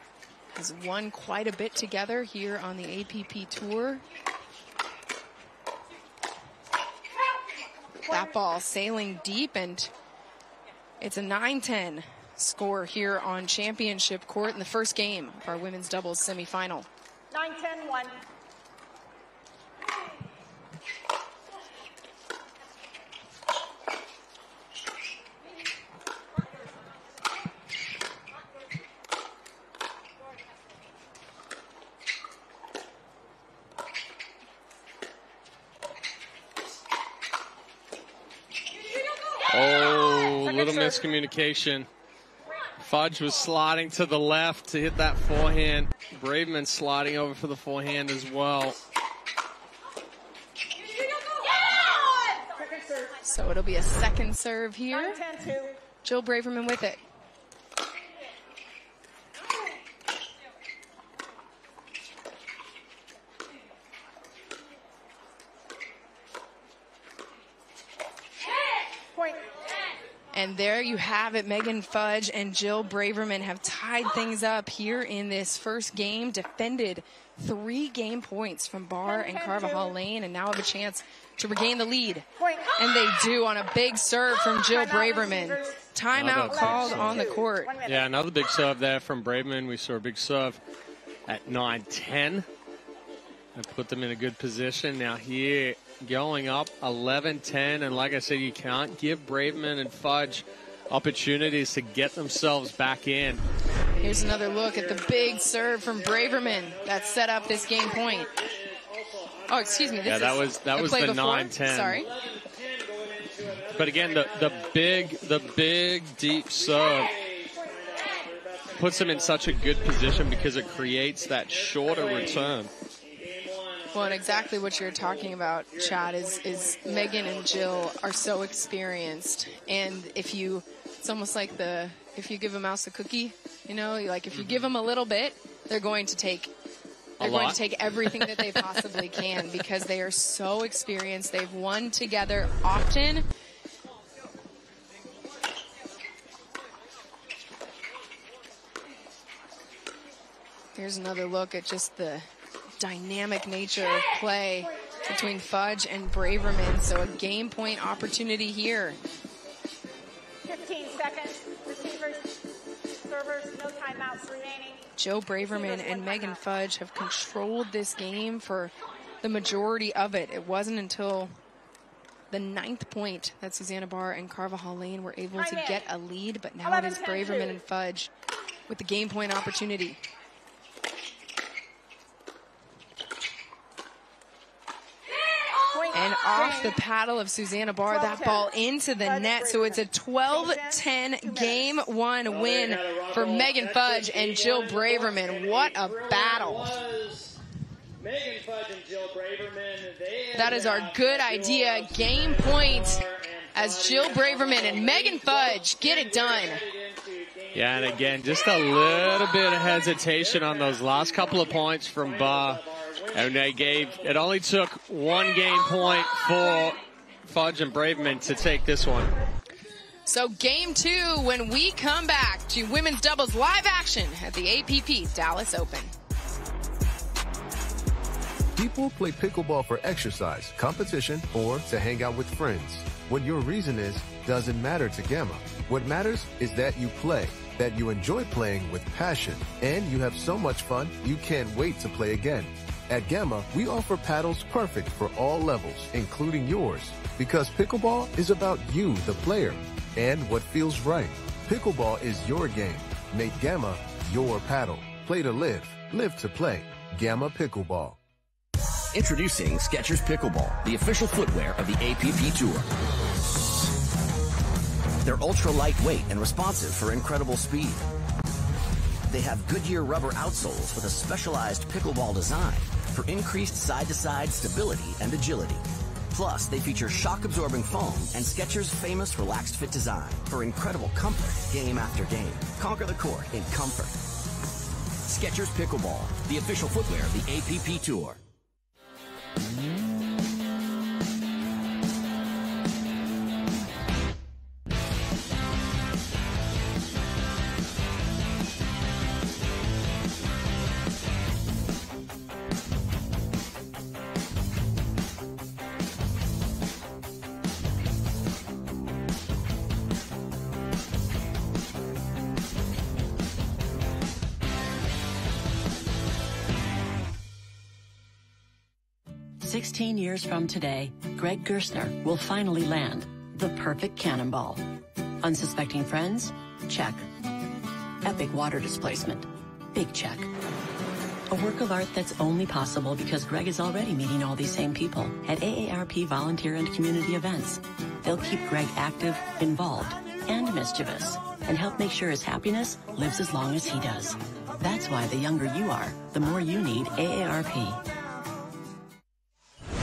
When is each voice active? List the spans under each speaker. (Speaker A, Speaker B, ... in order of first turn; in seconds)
Speaker A: 0.5-4.0, 8.0-9.9, 11.0-16.9, 53.2-55.2, 56.0-57.0, 70.3-87.7, 104.0-108.3, 109.5-112.1, 123.9-136.5, 137.2-143.2, 150.7-159.0, 164.9-171.3, 172.3-178.1, 178.7-180.0, 185.9-196.8, 200.3-206.6, 220.1-225.9
Speaker B: 17.3-18.2, 40.4-41.0, 52.5-53.2, 54.9-55.8, 69.1-69.5, 79.0-79.9, 82.4-82.7, 84.4-85.8, 86.5-88.1, 160.4-162.4, 163.0-164.9, 165.4-166.4, 175.3-175.8, 176.6-177.6, 185.7-186.8, 187.8-191.8
Speaker C: 39.5-41.9, 42.8-48.8, 86.1-87.2, 87.8-90.6, 91.3-92.5, 93.5-103.4, 110.0-112.0, 113.7-117.1, 118.7-122.7, 134.3-134.6, 137.2-139.0, 207.5-212.6, 213.1-219.1
Speaker D: 104.0-110.4, 111.7-115.7, 116.5-127.9, 192.3-197.4, 198.0-214.4
Speaker E: 228.5-258.0
Speaker F: 258.9-262.7, 265.0-267.8, 269.1-284.0, 285.0-288.2
Speaker G: 319.4-327.1, 328.0-330.3, 331.3-347.8